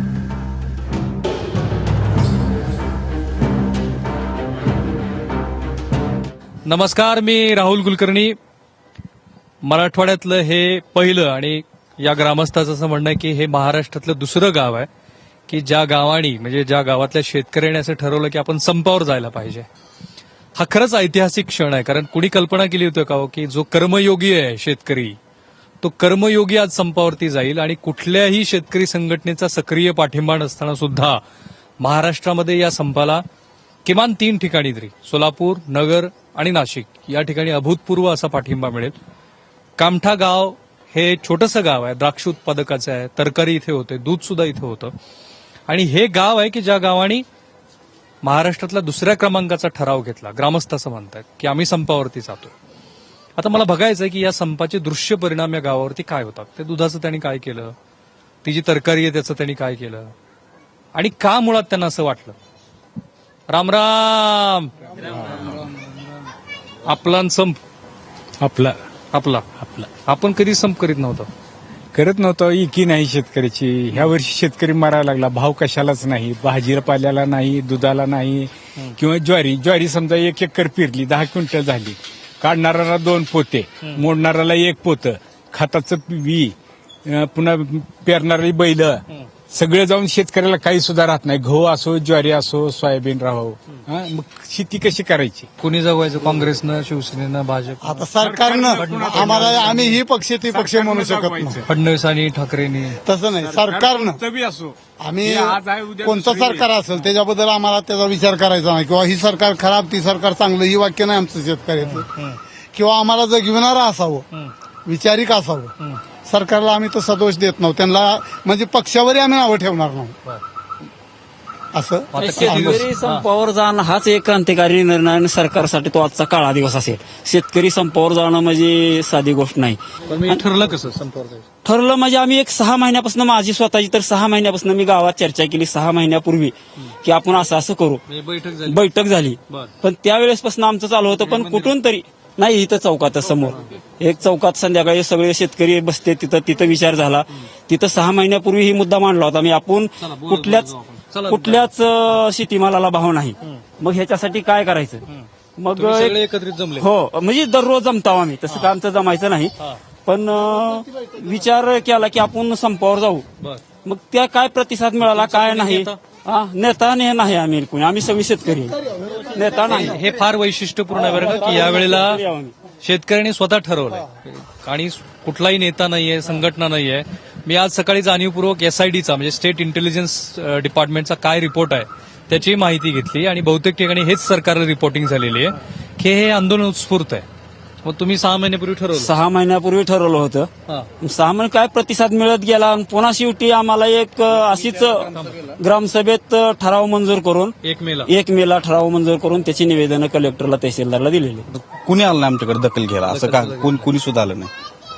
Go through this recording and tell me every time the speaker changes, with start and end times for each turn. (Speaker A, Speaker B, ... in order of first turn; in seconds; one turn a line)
Speaker A: 6.7-8.4
Speaker A: 9.6-14.9
Speaker A: 15.5-19.7
Speaker A: 20.6-25.2
Speaker A: 25.8-31.2
Speaker A: 31.8-33.2
Speaker A: 33.8-39.0
Speaker A: 39.8-44.9
Speaker A: 45.7-47.2
Speaker A: 48.2-52.5
Speaker A: 53.4-57.8
Speaker A: 58.4-60.1
Speaker A: 60.9-62.4
Speaker A: 63.5-65.6
Speaker A: 66.9-67.6
Speaker B: 68.4-68.8
Speaker A: 69.1-71.3
Speaker B: 71.9-86.5
Speaker B: 87.0-95.5
Speaker A: 95.6-98.1
Speaker C: 97.8-101.6
Speaker B: 98.0-101.7
Speaker A: 98.8-99.6
Speaker A: 101.7-103.0
Speaker C: 103.0-104.2
Speaker B: 103.4-107.1
Speaker C: 105.0-112.1
Speaker A: 111.8-112.4
Speaker C: 112.7-114.3
Speaker C: 114.9-115.7
Speaker C: 116.2-120.1
Speaker C: 121.7-122.1
Speaker A: 122.1-123.2
Speaker D: 122.2-130.4
Speaker A: 130.1-131.5
Speaker D: 131.7-138.0
Speaker A: 138.1-138.9
Speaker D: 138.7-150.7
Speaker A: 139.5-139.7
Speaker A: 141.2-141.8
Speaker A: 150.0-151.7
Speaker D: 151.3-155.0
Speaker A: 155.1-156.9
Speaker D: 155.6-156.2
Speaker D: 156.8-159.5
Speaker A: 158.5-158.7
Speaker D: 160.1-163.2
Speaker D: 163.8-170.0
Speaker A: 165.0-166.0
Speaker A: 169.7-172.2
Speaker D: 170.9-172.5
Speaker A: 172.8-187.2
Speaker A: 187.8-189.2
Speaker D: 188.9-190.5
Speaker D: 191.0-197.5
Speaker A: 195.2-195.5
Speaker A: 197.6-198.1
Speaker D: 198.1-201.4
Speaker E: 201.7-204.5
Speaker A: 203.1-203.9